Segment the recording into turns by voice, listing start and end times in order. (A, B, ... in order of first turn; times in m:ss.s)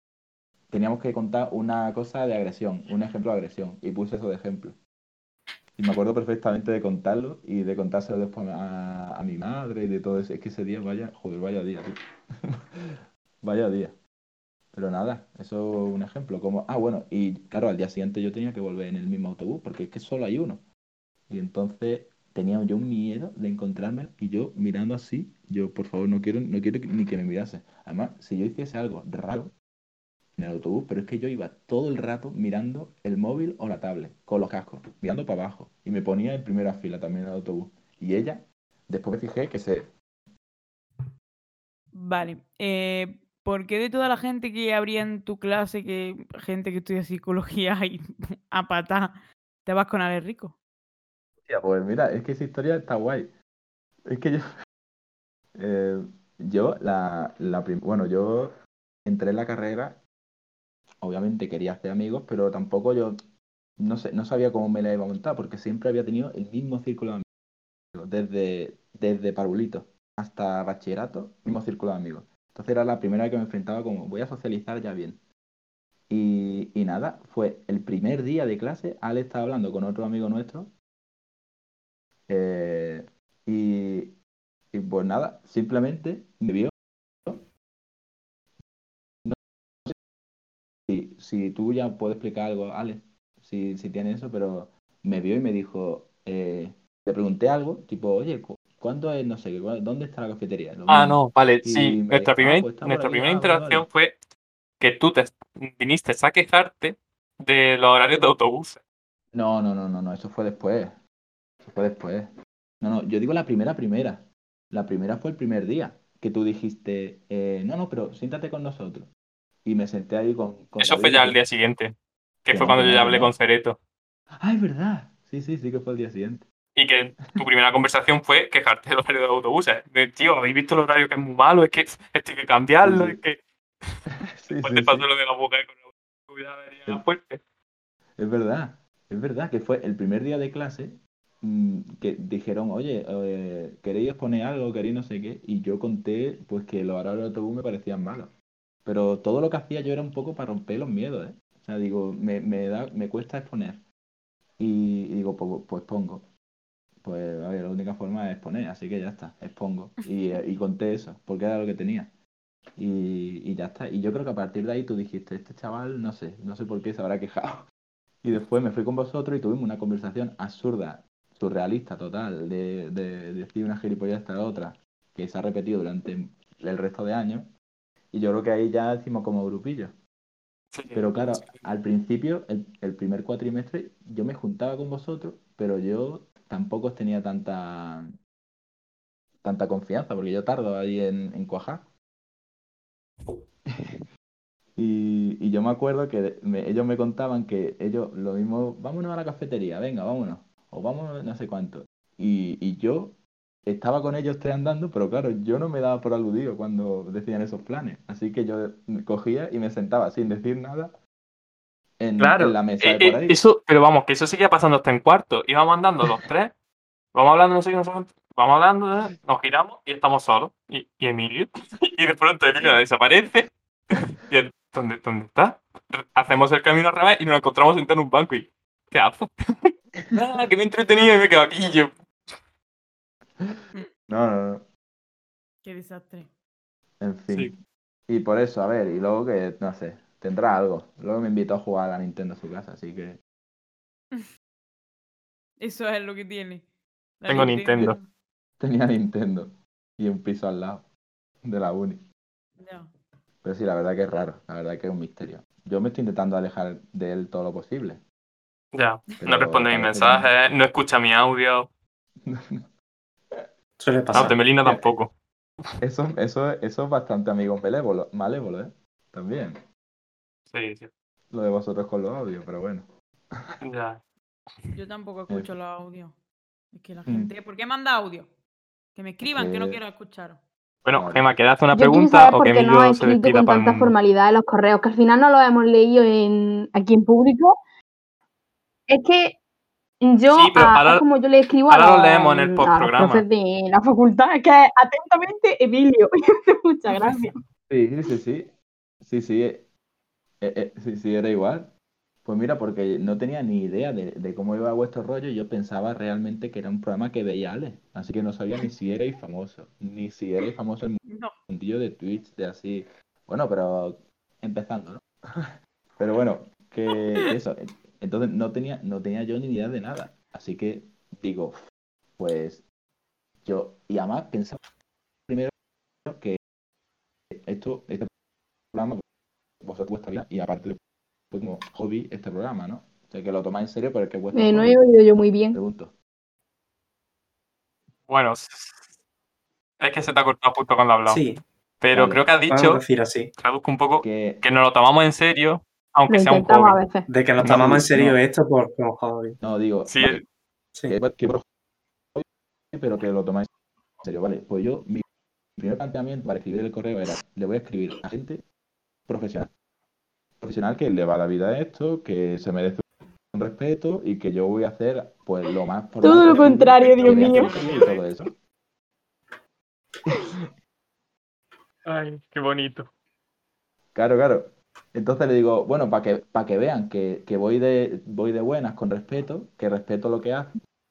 0:00.7-0:04.8 A
0:05.8-0:11.9 A
0:13.4-0:13.9 A
0:14.7-0:20.6 A
0:21.3-0:29.5 A
0:30.4-0:39.9 A
0:41.9-0:50.5 B
0:51.4-0:53.3 A
0:54.0-0:54.4 A
0:55.5-1:00.0 A
1:01.0-1:03.2 A
1:03.8-1:07.2 A
1:07.9-1:15.2 A
1:16.1-1:20.7 A
1:22.3-1:24.2 A
1:24.7-1:26.7 A
1:29.2-1:30.0 A
1:30.9-1:43.9 A
1:40.9-1:44.2 C
1:44.8-1:48.8 C
1:49.3-1:51.0 A
1:51.6-1:59.1 A
1:59.6-2:01.4 A
2:00.8-2:03.8 C
2:02.5-2:03.3 A
2:04.4-2:06.4 A
2:06.7-2:13.4 C
2:12.8-2:13.2 A
2:14.3-2:15.1 A
2:14.6-2:17.4 C
2:18.2-2:28.3 A
2:28.8-2:33.8 A
2:34.6-2:36.2 A
2:37.0-2:42.1 A
2:42.8-2:47.6 A
2:48.2-2:57.5 A
2:58.1-2:59.9 A
3:00.7-3:01.6 C
3:00.9-3:08.1 A
3:09.4-3:11.8 A
3:14.8-3:30.9 A
3:32.0-3:33.4 A
3:32.2-3:36.5 C
3:37.1-3:51.9 C
3:54.1-3:54.6 A
3:55.6-3:56.3 B
3:57.0-3:57.5 A
3:58.1-4:03.2 A
4:05.6-4:06.6 B
4:07.2-4:08.1 B
4:07.3-4:08.0 C
4:07.3-4:07.9 A
4:08.6-4:10.8 A
4:11.4-4:12.0 A
4:12.6-4:12.9 B
4:13.4-4:18.0 A
4:18.7-4:21.7 C
4:19.2-4:20.3 A
4:22.2-4:22.6 A
4:23.8-4:24.4 D
4:24.1-4:24.9 A
4:24.1-4:25.1 C
4:25.8-4:29.6 A
4:30.5-4:30.9 C
4:31.3-4:33.6 A
4:33.6-4:34.0 C
4:34.7-4:36.1 B
4:36.7-4:38.3 B
4:37.0-4:37.3 A
4:39.0-4:40.4 B
4:39.3-4:39.8 A
4:40.8-4:43.9 C
4:40.9-4:41.4 A
4:41.7-4:47.6 E
4:48.9-4:49.4 E
4:50.0-4:57.4 E
4:50.3-4:51.0 C
4:51.7-4:53.2 C
4:57.7-4:58.5 A
4:59.0-4:59.7 A
5:00.4-5:01.7 A
5:02.2-5:21.6 A
5:11.0-5:11.3 B
5:22.2-5:22.6 A
5:23.4-5:24.6 A
5:25.3-5:25.5 A
5:26.0-5:26.4 A
5:27.3-5:28.1 A
5:28.7-5:29.0 A
5:29.6-5:30.8 A
5:31.3-5:34.8 A
5:34.3-5:35.6 E
5:35.5-5:35.9 A
5:38.1-5:38.8 C
5:39.8-5:41.2 C
5:41.1-5:41.4 D
5:41.8-5:42.8 C
5:41.9-5:42.3 A
5:42.5-5:43.3 D
5:43.4-5:46.8 C
5:44.0-5:44.4 A
5:46.1-5:47.1 E
5:47.1-5:49.4 D
5:47.4-5:47.8 C
5:47.4-5:48.2 A
5:49.4-5:50.2 A
5:49.9-5:50.2 C
5:50.9-5:51.4 A
5:52.1-5:53.5 A
5:54.0-5:55.0 A
5:55.6-5:58.4 A
5:59.1-5:59.5 A
6:00.4-6:08.3 A
6:06.0-6:07.6 E
6:06.4-6:08.0 C
6:11.8-6:12.9 C
6:13.9-6:20.5 A